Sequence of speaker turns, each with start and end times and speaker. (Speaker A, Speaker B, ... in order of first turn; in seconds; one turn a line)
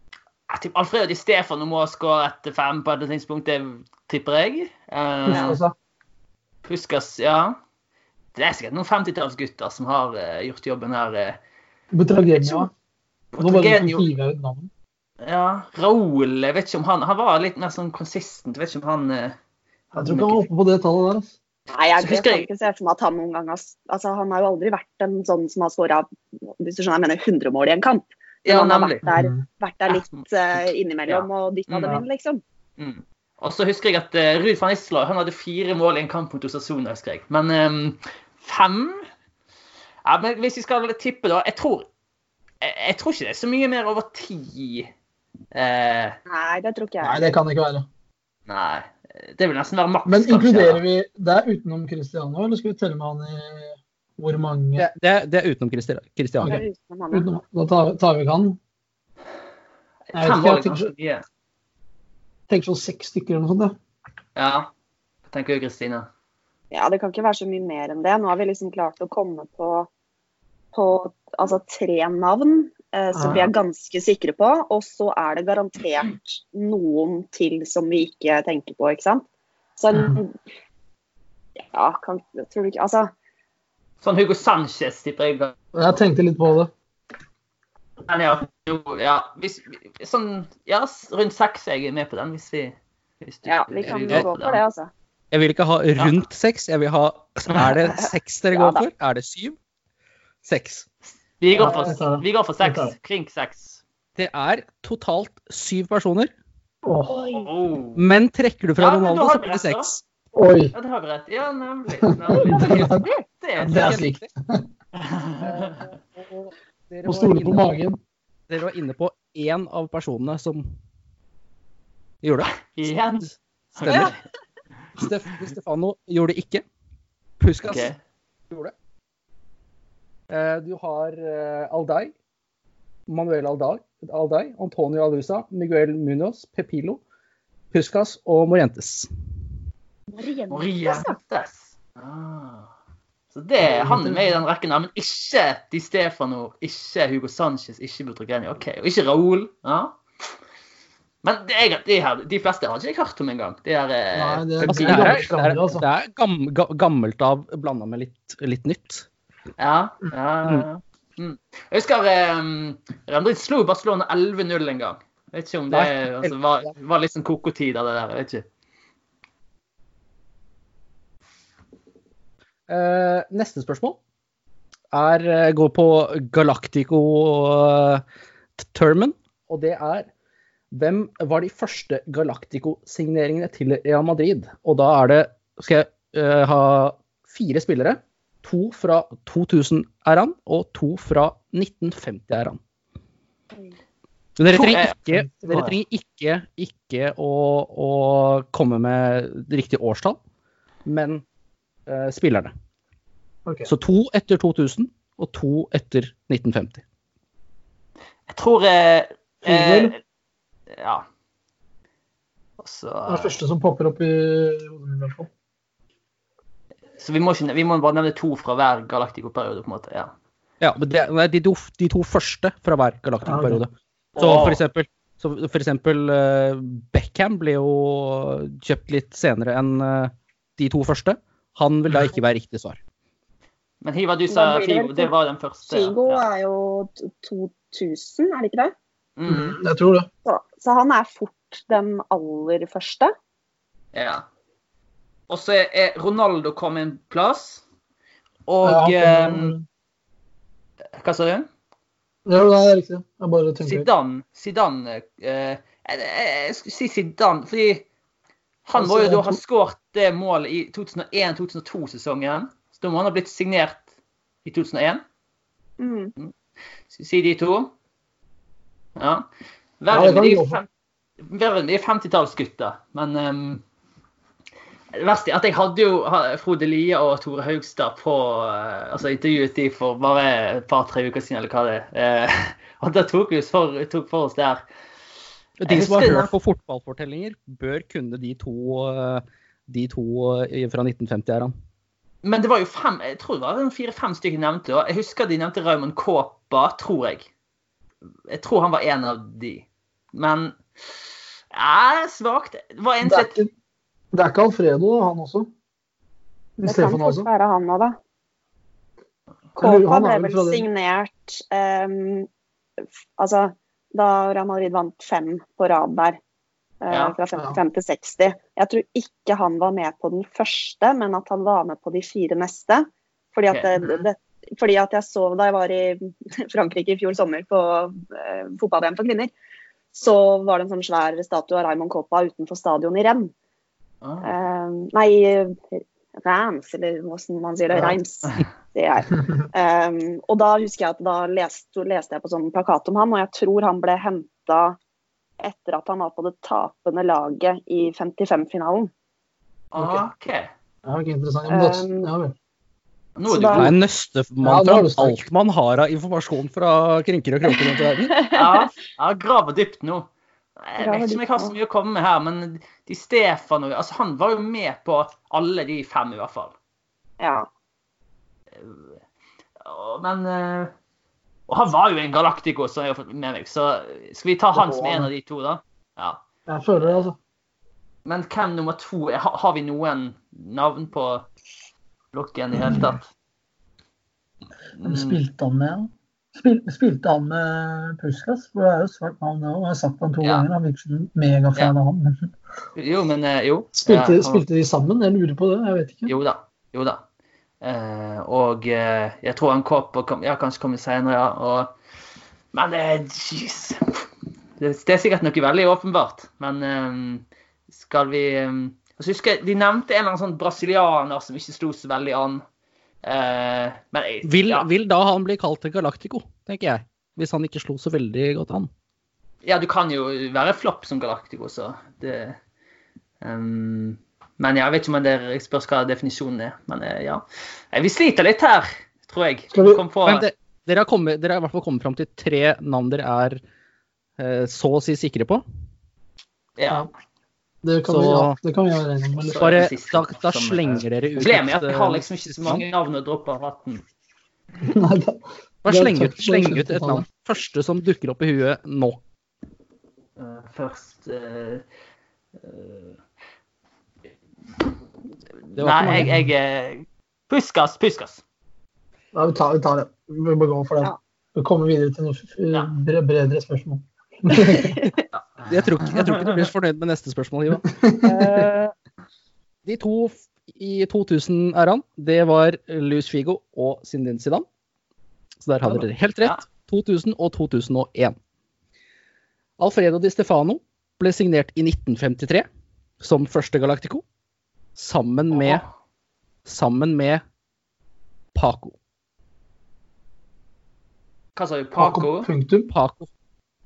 Speaker A: 0.5-5.6
Speaker B: 5.3-5.7
Speaker A: 6.7-7.6
Speaker A: 8.3-11.4
Speaker B: 11.9-12.7
Speaker A: 13.3-14.1
Speaker B: 13.4-14.7
Speaker A: 15.2-19.4
Speaker A: 19.9-20.4
Speaker B: 19.9-21.3
Speaker C: 21.7-32.4
Speaker A: 22.0-22.5
Speaker A: 28.4-29.0
Speaker B: 29.0-29.4
Speaker A: 29.9-30.2
Speaker A: 31.1-32.0
Speaker A: 32.8-39.1
Speaker A: 40.0-41.9
Speaker A: 42.6-44.9
Speaker A: 45.5-46.2
Speaker C: 46.3-47.3
Speaker B: 47.0-47.9
Speaker A: 48.5-50.8
Speaker B: 50.1-54.9
Speaker D: 54.8-56.6
Speaker B: 56.4-58.6
Speaker C: 56.4-57.3
Speaker A: 60.1-61.2
Speaker B: 60.2-60.9
Speaker B: 62.5-63.8
Speaker A: 64.4-64.7
Speaker A: 65.3-66.1
Speaker C: 66.7-69.9
Speaker C: 70.7-79.2
Speaker B: 73.2-73.4
Speaker C: 79.8-80.3
Speaker B: 79.9-80.2
Speaker C: 81.7-83.1
Speaker A: 84.0-85.5
Speaker B: 85.7-86.7
Speaker A: 88.1-94.6
Speaker C: 93.5-94.9
Speaker D: 95.3-99.6
Speaker C: 98.5-98.8
Speaker D: 100.4-100.9
Speaker A: 101.4-103.8
Speaker B: 101.5-102.9
Speaker D: 104.2-106.3
Speaker B: 106.8-107.3
Speaker A: 107.3-108.1
Speaker D: 108.0-110.0
Speaker A: 108.8-109.9
Speaker B: 110.3-110.7
Speaker A: 110.7-114.0
Speaker B: 112.0-113.1
Speaker D: 113.6-114.3
Speaker B: 113.6-114.6
Speaker A: 115.0-115.8
Speaker D: 115.4-117.7
Speaker B: 117.0-118.0
Speaker D: 118.5-120.7
Speaker D: 122.2-122.5
Speaker A: 122.7-124.2
Speaker D: 125.0-126.6
Speaker D: 127.4-127.9
Speaker A: 127.7-128.0
Speaker D: 130.3-132.1
Speaker D: 133.1-137.0
Speaker D: 137.7-139.1
Speaker C: 140.1-141.2
Speaker A: 140.5-142.7
Speaker A: 143.3-150.0
Speaker B: 143.6-144.4
Speaker A: 151.2-155.3
Speaker B: 154.2-155.8
Speaker D: 154.7-159.1
Speaker A: 159.6-168.4
Speaker D: 165.7-166.3
Speaker D: 172.7-174.0
Speaker D: 174.9-178.0
Speaker D: 178.6-180.1
Speaker D: 180.7-192.6
Speaker D: 194.4-200.2
Speaker A: 194.5-194.9
Speaker B: 195.1-195.7
Speaker D: 200.8-201.2
Speaker D: 201.9-202.5
Speaker B: 203.4-203.7
Speaker D: 203.7-206.8
Speaker A: 208.3-210.0
Speaker B: 209.4-209.9
Speaker A: 210.7-211.1
Speaker A: 212.6-213.4
Speaker B: 213.1-215.3
Speaker A: 217.0-220.1
Speaker D: 220.6-232.8
Speaker B: 223.3-223.6
Speaker A: 224.2-224.6
Speaker A: 233.8-236.2
Speaker C: 234.3-235.1
Speaker C: 235.7-238.7
Speaker A: 239.2-239.6
Speaker B: 239.3-240.1
Speaker C: 240.2-243.1
Speaker A: 243.9-244.2
Speaker A: 245.3-247.6
Speaker A: 248.5-249.5
Speaker B: 248.6-249.7
Speaker A: 251.0-251.5
Speaker B: 252.3-253.9
Speaker A: 253.6-257.8
Speaker A: 258.7-263.9
Speaker B: 258.8-259.4
Speaker A: 264.4-265.0
Speaker C: 265.8-266.1
Speaker A: 266.9-267.7
Speaker A: 269.0-269.3
Speaker A: 269.8-270.7
Speaker B: 269.9-270.6
Speaker A: 271.2-273.6
Speaker A: 274.9-284.6
Speaker D: 285.6-291.5
Speaker A: 285.7-286.3
Speaker A: 292.2-297.3
Speaker A: 298.3-300.6
Speaker A: 301.5-303.4
Speaker B: 303.0-303.5
Speaker B: 304.1-305.5
Speaker B: 306.6-307.3
Speaker C: 306.7-308.0
Speaker B: 309.6-310.7
Speaker C: 309.6-312.3
Speaker C: 313.2-316.2
Speaker C: 316.8-329.3
Speaker A: 316.9-317.1
Speaker B: 317.4-317.6
Speaker A: 323.5-324.0
Speaker C: 329.9-333.3
Speaker A: 334.0-334.3
Speaker C: 334.2-344.8
Speaker C: 345.4-348.9
Speaker A: 349.7-350.5
Speaker B: 349.8-350.0
Speaker B: 350.9-352.4
Speaker C: 351.5-352.1
Speaker A: 353.2-353.7
Speaker C: 353.3-353.7
Speaker D: 353.5-358.1
Speaker B: 354.4-355.2
Speaker C: 358.1-358.6
Speaker A: 358.3-360.1
Speaker A: 360.6-366.6
Speaker C: 360.8-361.6
Speaker C: 367.2-367.5
Speaker A: 368.6-368.9
Speaker A: 369.6-370.7
Speaker A: 371.5-376.2
Speaker B: 374.6-375.1
Speaker B: 376.5-377.2
Speaker A: 378.1-381.3
Speaker A: 382.1-383.0
Speaker B: 382.6-382.9
Speaker A: 384.8-385.2
Speaker B: 384.8-392.3
Speaker A: 392.8-394.4
Speaker B: 393.8-396.1
Speaker A: 396.1-397.0
Speaker A: 397.6-401.8
Speaker A: 402.5-404.0
Speaker A: 404.6-412.4
Speaker A: 413.0-414.7
Speaker D: 414.2-418.7
Speaker A: 419.4-422.4
Speaker A: 423.2-430.3
Speaker B: 429.5-429.8
Speaker D: 430.1-433.4
Speaker D: 434.2-435.4
Speaker A: 436.6-436.9
Speaker B: 437.6-439.7
Speaker D: 437.9-438.4
Speaker A: 439.2-443.9
Speaker D: 439.4-442.6
Speaker B: 444.6-447.1
Speaker D: 445.6-449.0
Speaker A: 450.2-451.6
Speaker A: 452.4-452.9
Speaker A: 455.5-458.2
Speaker D: 455.6-456.2
Speaker B: 455.8-456.3
Speaker B: 459.1-464.9
Speaker A: 465.4-466.4
Speaker D: 465.5-467.6
Speaker B: 467.6-468.5
Speaker C: 468.0-468.7
Speaker D: 469.6-474.5
Speaker D: 475.4-478.2
Speaker D: 479.6-482.5
Speaker D: 483.0-484.0
Speaker D: 484.8-485.6
Speaker A: 485.3-485.7
Speaker D: 486.5-487.2
Speaker D: 488.3-488.8
Speaker A: 491.4-492.3
Speaker B: 491.8-492.7
Speaker D: 492.7-493.1